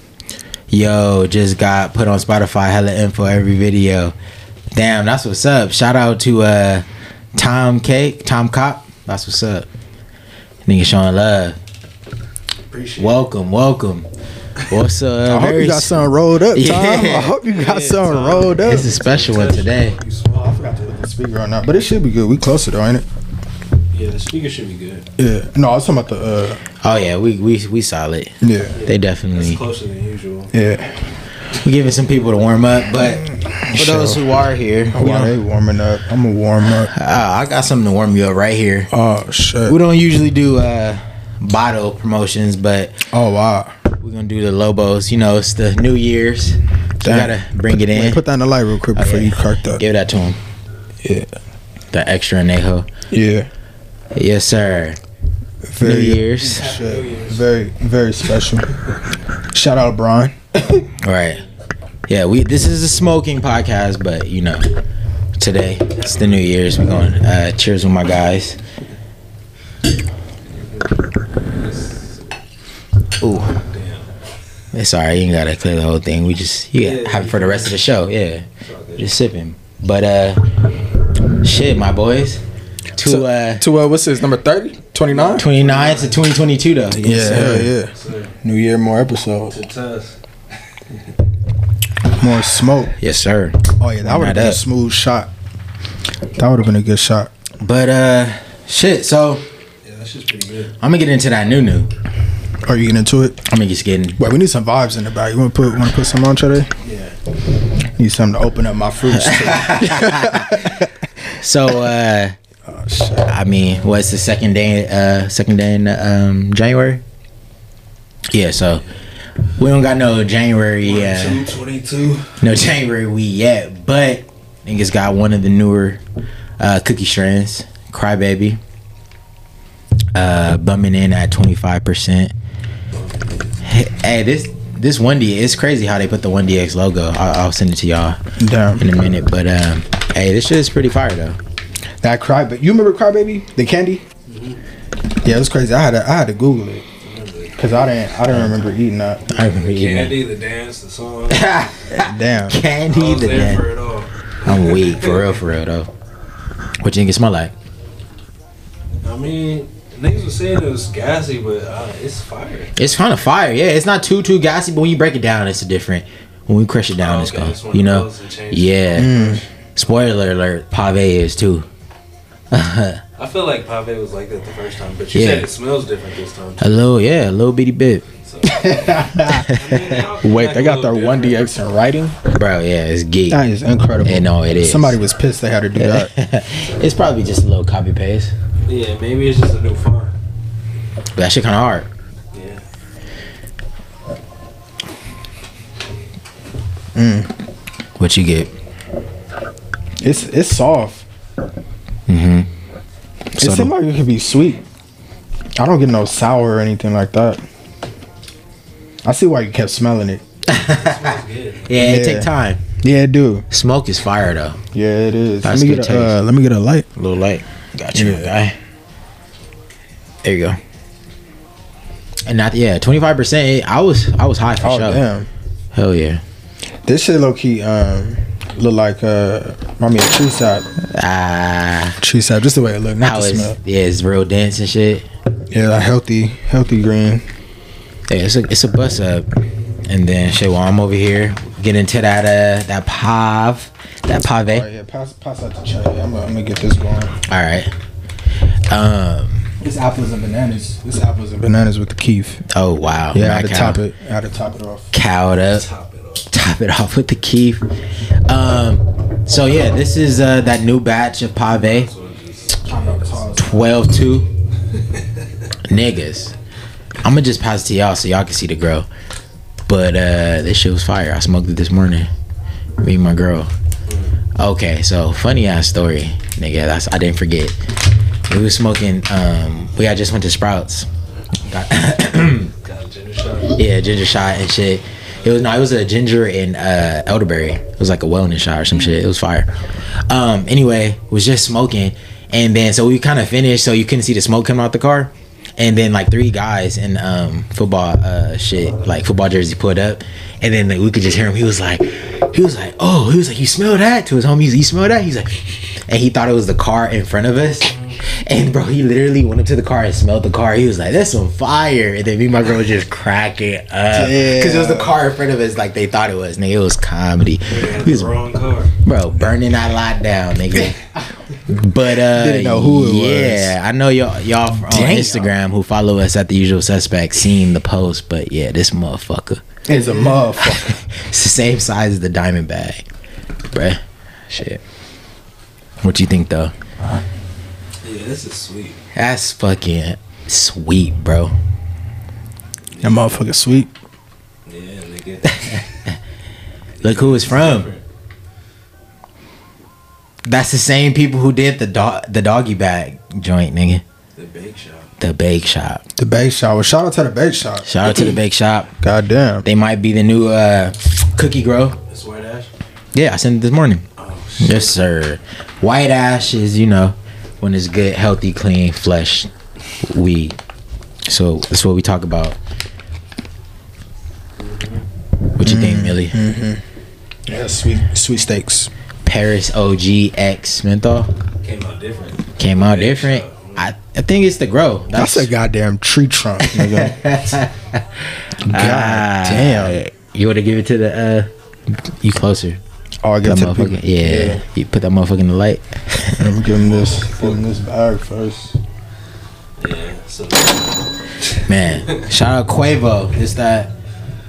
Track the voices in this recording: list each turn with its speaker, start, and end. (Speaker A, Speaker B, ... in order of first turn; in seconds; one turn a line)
Speaker A: 0.7-4.1
Speaker A: 4.7-9.7
Speaker A: 10.7-11.6
Speaker B: 12.7-13.3
Speaker A: 13.0-14.1
Speaker A: 14.6-17.4
Speaker C: 15.2-18.9
Speaker B: 17.5-21.0
Speaker A: 18.6-20.0
Speaker C: 20.3-23.1
Speaker B: 23.9-25.1
Speaker C: 25.2-26.6
Speaker A: 26.8-28.3
Speaker C: 28.4-28.8
Speaker B: 28.8-30.5
Speaker A: 28.8-29.6
Speaker C: 30.5-31.0
Speaker A: 31.6-35.4
Speaker C: 33.5-34.2
Speaker C: 34.9-36.9
Speaker A: 36.8-38.9
Speaker C: 38.9-39.8
Speaker A: 39.6-43.0
Speaker C: 43.1-43.7
Speaker A: 44.0-48.2
Speaker C: 47.0-49.8
Speaker A: 48.9-50.4
Speaker C: 51.0-51.3
Speaker A: 51.9-52.9
Speaker C: 53.1-53.5
Speaker A: 54.1-55.0
Speaker C: 55.6-58.7
Speaker A: 55.8-56.7
Speaker B: 56.4-57.5
Speaker C: 59.5-60.8
Speaker A: 61.0-61.4
Speaker A: 62.1-64.7
Speaker A: 65.4-68.6
Speaker B: 65.9-67.0
Speaker B: 70.5-72.4
Speaker A: 73.2-73.5
Speaker B: 73.5-74.1
Speaker A: 74.7-78.5
Speaker B: 76.8-77.8
Speaker B: 78.6-79.1
Speaker A: 79.0-80.4
Speaker A: 81.4-82.4
Speaker A: 83.0-83.6
Speaker C: 83.0-85.5
Speaker B: 85.0-86.3
Speaker A: 85.4-87.7
Speaker B: 87.0-88.3
Speaker C: 87.0-89.5
Speaker B: 89.5-90.2
Speaker C: 92.2-93.0
Speaker A: 93.0-94.6
Speaker C: 93.8-95.3
Speaker C: 96.3-97.3
Speaker A: 97.6-99.4
Speaker B: 99.8-100.7
Speaker A: 100.8-101.9
Speaker C: 102.6-103.4
Speaker A: 103.5-104.2
Speaker C: 104.2-106.7
Speaker B: 106.8-107.2
Speaker C: 108.0-110.9
Speaker A: 109.0-110.7
Speaker A: 111.3-112.3
Speaker C: 112.7-113.3
Speaker A: 113.2-117.0
Speaker A: 118.3-118.8
Speaker A: 119.6-121.5
Speaker B: 120.8-122.4
Speaker A: 122.4-126.0
Speaker A: 126.6-128.6
Speaker A: 130.1-132.3
Speaker B: 132.9-133.5
Speaker A: 133.6-138.2
Speaker C: 138.4-138.9
Speaker A: 138.8-141.4
Speaker C: 142.0-144.0
Speaker B: 144.3-144.6
Speaker C: 145.2-146.8
Speaker B: 147.0-148.1
Speaker C: 147.6-149.2
Speaker A: 148.3-148.6
Speaker A: 149.3-150.2
Speaker B: 149.3-151.6
Speaker A: 151.3-153.7
Speaker C: 151.9-152.6
Speaker B: 152.9-155.4
Speaker A: 154.4-155.9
Speaker A: 156.8-157.5
Speaker B: 159.0-162.7
Speaker A: 162.8-169.2
Speaker B: 167.0-169.4
Speaker C: 168.9-169.4
Speaker A: 169.8-171.7
Speaker A: 172.5-173.0
Speaker B: 173.2-176.7
Speaker A: 175.1-175.5
Speaker A: 176.6-178.0
Speaker B: 178.2-181.5
Speaker C: 178.4-179.5
Speaker A: 179.4-180.0
Speaker C: 180.2-182.2
Speaker A: 182.3-183.4
Speaker C: 183.3-186.1
Speaker A: 184.0-185.0
Speaker A: 185.8-188.3
Speaker B: 188.7-190.2
Speaker A: 191.2-191.9
Speaker B: 192.3-192.6
Speaker C: 196.9-197.3
Speaker A: 198.0-198.5
Speaker C: 200.0-201.1
Speaker A: 202.1-202.5
Speaker A: 203.3-203.7
Speaker C: 203.4-204.6
Speaker C: 205.6-207.4
Speaker C: 209.0-210.2
Speaker A: 210.5-211.1
Speaker B: 210.6-211.7
Speaker A: 211.6-212.6
Speaker C: 211.7-212.3
Speaker C: 212.8-213.4
Speaker A: 213.5-214.6
Speaker C: 214.7-216.9
Speaker A: 215.4-216.2
Speaker A: 217.0-218.6
Speaker C: 217.9-218.3
Speaker A: 220.2-220.6
Speaker A: 222.2-225.0
Speaker C: 224.6-225.3
Speaker A: 225.7-226.2
Speaker C: 226.8-230.7
Speaker A: 230.9-232.0
Speaker C: 232.0-233.6
Speaker A: 233.0-235.1
Speaker C: 235.5-237.2
Speaker A: 238.1-239.2
Speaker A: 239.9-244.7
Speaker C: 244.5-247.2
Speaker A: 247.3-247.7
Speaker A: 248.7-249.5
Speaker C: 249.6-252.4
Speaker A: 252.5-253.8
Speaker C: 253.1-254.9
Speaker A: 254.9-255.6
Speaker B: 255.5-256.2
Speaker A: 256.3-257.6
Speaker A: 258.3-261.9
Speaker B: 261.6-263.4
Speaker C: 262.6-263.8
Speaker A: 263.4-264.3
Speaker B: 264.7-265.5
Speaker A: 265.7-266.3
Speaker A: 267.0-268.9
Speaker A: 269.7-272.1
Speaker A: 272.8-273.5
Speaker B: 273.9-274.1
Speaker A: 274.4-277.6
Speaker A: 278.3-280.9
Speaker A: 281.5-282.5
Speaker B: 282.6-283.6
Speaker A: 283.6-289.5
Speaker B: 285.1-285.6
Speaker B: 288.7-289.0
Speaker A: 290.1-318.1
Speaker C: 313.9-315.0
Speaker B: 317.4-318.7
Speaker A: 318.8-320.9
Speaker A: 321.4-329.4
Speaker C: 321.9-323.6
Speaker C: 324.7-325.3
Speaker C: 329.7-330.8
Speaker A: 330.4-332.8
Speaker A: 333.5-334.6
Speaker A: 335.8-336.5
Speaker B: 337.8-338.8
Speaker A: 338.9-341.3
Speaker B: 342.7-343.2
Speaker C: 342.8-343.7
Speaker B: 344.4-345.5
Speaker B: 346.8-347.8
Speaker A: 346.8-347.7
Speaker A: 350.2-353.8
Speaker B: 354.2-354.9
Speaker A: 355.0-355.8
Speaker C: 356.0-357.9
Speaker A: 357.6-358.7
Speaker C: 358.8-359.4
Speaker A: 359.4-361.8
Speaker B: 361.9-362.5
Speaker A: 362.9-363.9
Speaker B: 364.0-364.8
Speaker A: 364.4-369.3
Speaker A: 369.8-370.4
Speaker A: 371.1-372.4
Speaker B: 374.4-374.8
Speaker A: 375.4-376.2
Speaker C: 375.4-376.6
Speaker C: 377.3-378.7
Speaker A: 379.1-381.1
Speaker B: 381.4-383.7
Speaker A: 382.4-385.3
Speaker C: 384.9-387.0
Speaker A: 386.4-392.6
Speaker C: 388.4-389.8
Speaker C: 393.0-394.4
Speaker A: 393.2-396.3
Speaker C: 396.2-398.6
Speaker B: 396.5-397.4
Speaker B: 399.6-402.1
Speaker A: 401.5-403.7